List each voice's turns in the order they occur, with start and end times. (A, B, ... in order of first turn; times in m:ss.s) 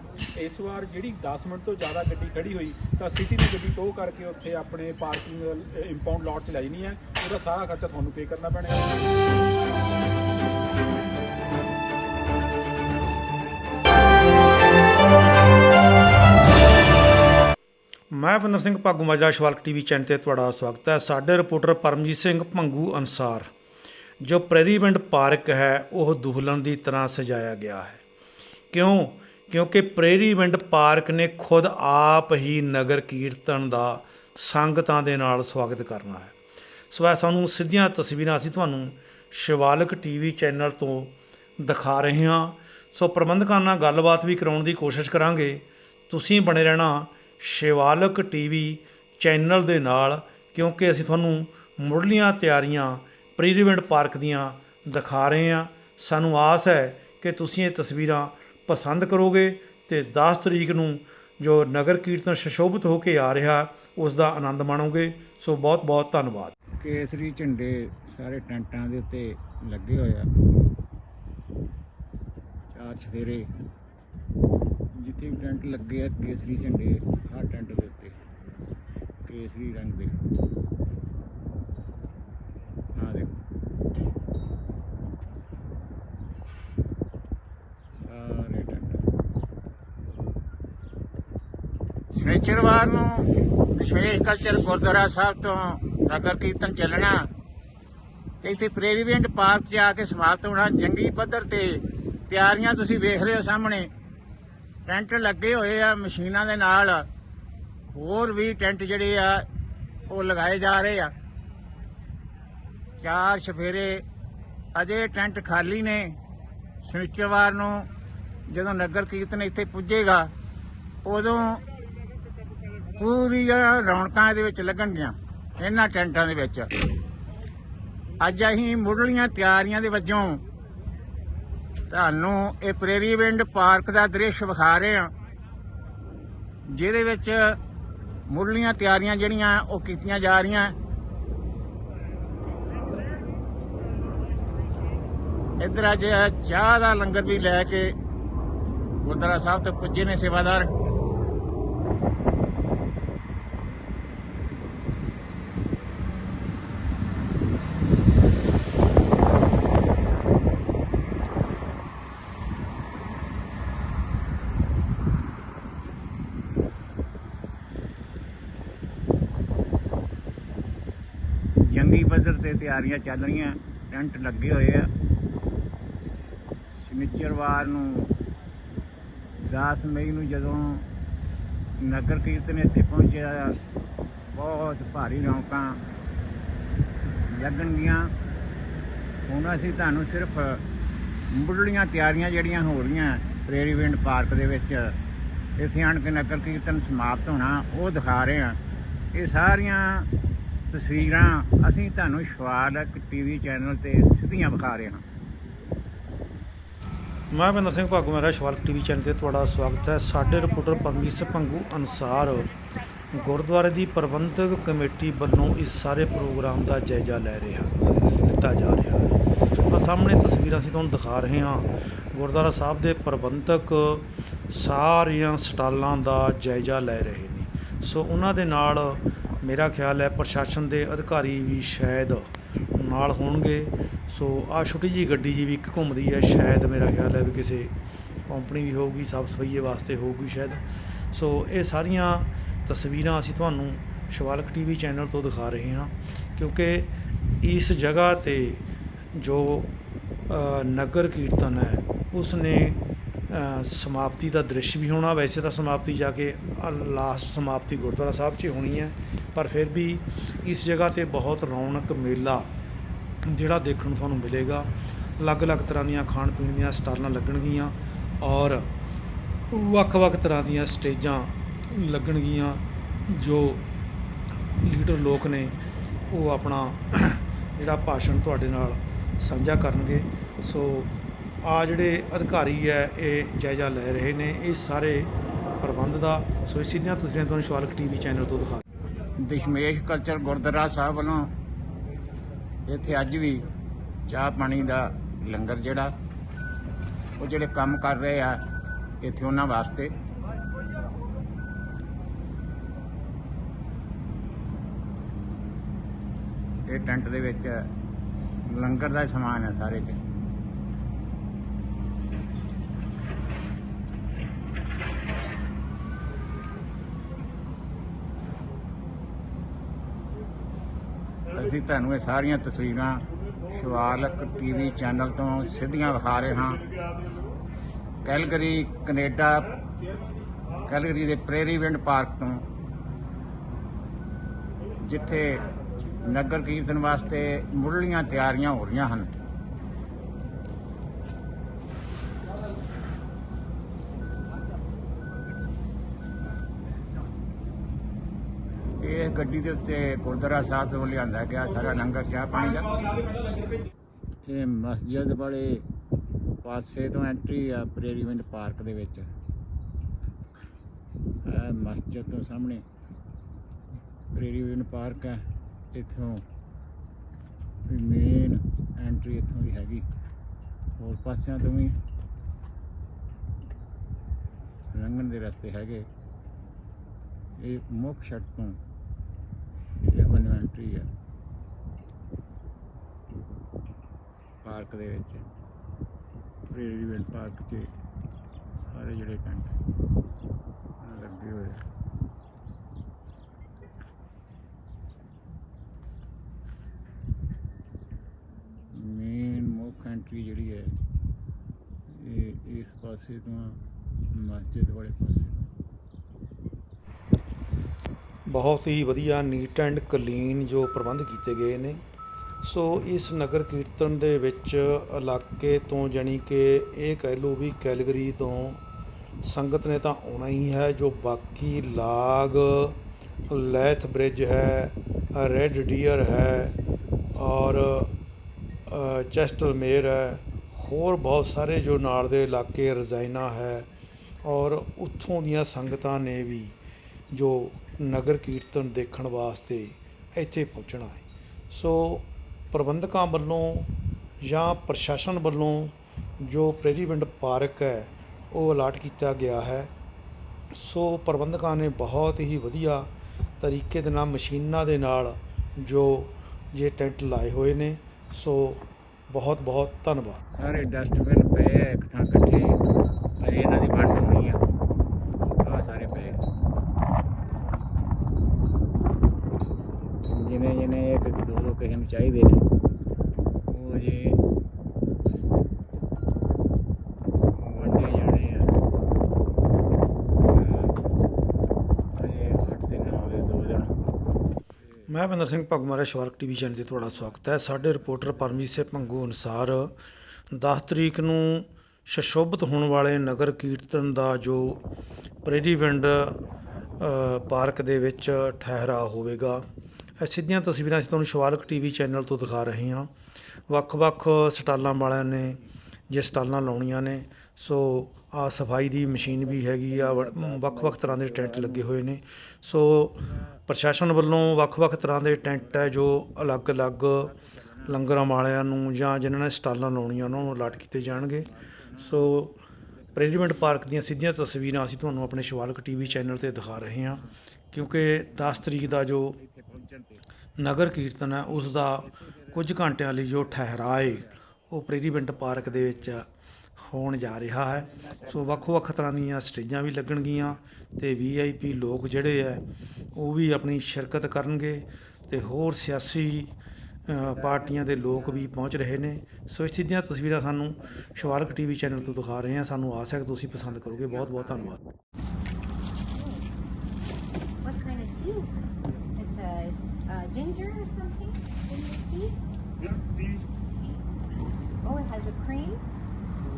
0:00.4-0:09.0 A
0:18.1-0:23.5 B
0:24.2-0:28.0 B
0:28.7-0:36.3 B
0:36.9-1:06.5 B
1:06.8-1:10.3 C
1:12.8-1:13.4 C
1:15.0-1:18.1 C
1:19.2-1:20.2 C
1:23.0-1:23.3 C
1:28.0-1:29.1 C
1:32.1-1:37.2 C
1:38.4-1:43.9 C
1:44.9-1:47.1 C
1:47.9-1:49.4 C
1:50.1-1:51.1 C
1:53.0-1:54.0 C
1:54.7-1:56.2 C
1:56.8-1:57.9 C
1:58.5-2:00.3 C
2:01.0-2:01.6 C
2:03.0-2:06.7 C
2:08.2-2:10.4 C
2:11.9-2:15.1 C
2:16.7-2:17.6 C
2:18.3-2:20.7 C
2:25.6-2:27.9 C
2:29.0-2:30.7 C
2:51.7-2:54.9 C
2:56.8-2:58.1 C
2:59.4-3:00.9 C
3:01.8-3:03.6 C
3:04.3-3:05.8 C
3:07.3-3:08.1 C
3:09.3-3:10.6 C
3:11.3-3:14.9 C
3:15.6-3:18.6 C
3:19.1-3:20.1 C
3:20.7-3:25.0 C
3:27.3-3:32.5 B
3:33.1-3:39.1 B
3:39.7-3:57.7 B
3:58.3-4:09.7 B
4:10.3-4:22.5 B
4:23.2-4:28.7 B
4:29.5-4:33.6 B
4:34.6-4:35.6 B
4:36.1-4:48.6 B
4:49.2-4:51.3 C
4:52.7-4:53.4 C
4:54.1-4:55.9 C
4:57.2-4:58.4 C
4:59.0-4:59.9 C
5:06.7-5:07.6 C
5:08.5-5:10.0 C
5:21.3-5:26.6 C
5:28.0-5:29.5 C
5:30.6-5:32.4 C
5:34.8-5:35.4 C
5:36.0-5:39.1 C
5:48.8-5:52.7 C
5:51.5-5:51.8 A
5:52.3-5:53.7 A
5:54.2-5:55.6 C
5:56.4-5:59.1 C
6:01.2-6:02.6 C
6:04.1-6:05.2 C
6:05.7-6:06.2 C
6:07.7-6:09.8 C
6:10.8-6:11.7 C
6:14.7-6:15.8 C
6:17.4-6:18.6 C
6:19.9-6:20.9 C
6:24.4-6:25.3 C
6:26.5-6:27.7 C
6:28.6-6:29.5 C
6:30.8-6:31.6 C
6:38.7-6:40.7 C
6:42.0-6:43.6 C
6:44.2-6:45.4 C
6:48.3-6:51.8 B
6:52.4-6:58.6 B
6:59.2-7:02.8 B
7:03.3-7:06.5 B
7:07.2-7:07.9 B
7:08.7-7:13.7 B
7:14.2-7:16.5 B
7:17.1-7:23.7 B
7:24.2-7:29.7 B
7:30.5-7:40.2 B
7:40.4-7:42.6 C
7:43.2-7:44.4 C
7:45.4-7:46.2 C
7:50.1-7:52.4 C
7:53.5-7:54.2 C
7:57.4-7:58.6 C
8:00.3-8:00.7 C
8:01.9-8:03.7 C
8:04.9-8:09.7 B
8:10.3-8:14.6 B
8:15.2-8:16.2 B
8:16.8-8:19.4 B
8:20.0-8:22.9 B
8:23.5-8:37.1 B
8:29.0-8:31.7 C
8:33.0-8:33.4 C
8:34.3-8:37.8 C
8:37.6-8:42.4 B
8:40.1-8:42.2 C
8:42.9-8:49.2 B
8:48.1-8:50.0 C
8:50.4-8:56.1 B
8:51.4-8:52.4 C
8:53.1-8:54.1 C
8:55.5-8:56.0 C
8:56.6-9:02.4 B
8:57.8-8:58.7 C
9:02.9-9:06.4 B
9:06.9-9:14.6 B
9:07.0-9:08.3 C
9:11.1-9:11.8 C
9:13.6-9:14.5 C
9:15.9-9:16.3 D
9:17.4-9:18.4 D
9:19.0-9:22.2 D
9:23.3-9:23.8 D
9:24.6-9:25.6 D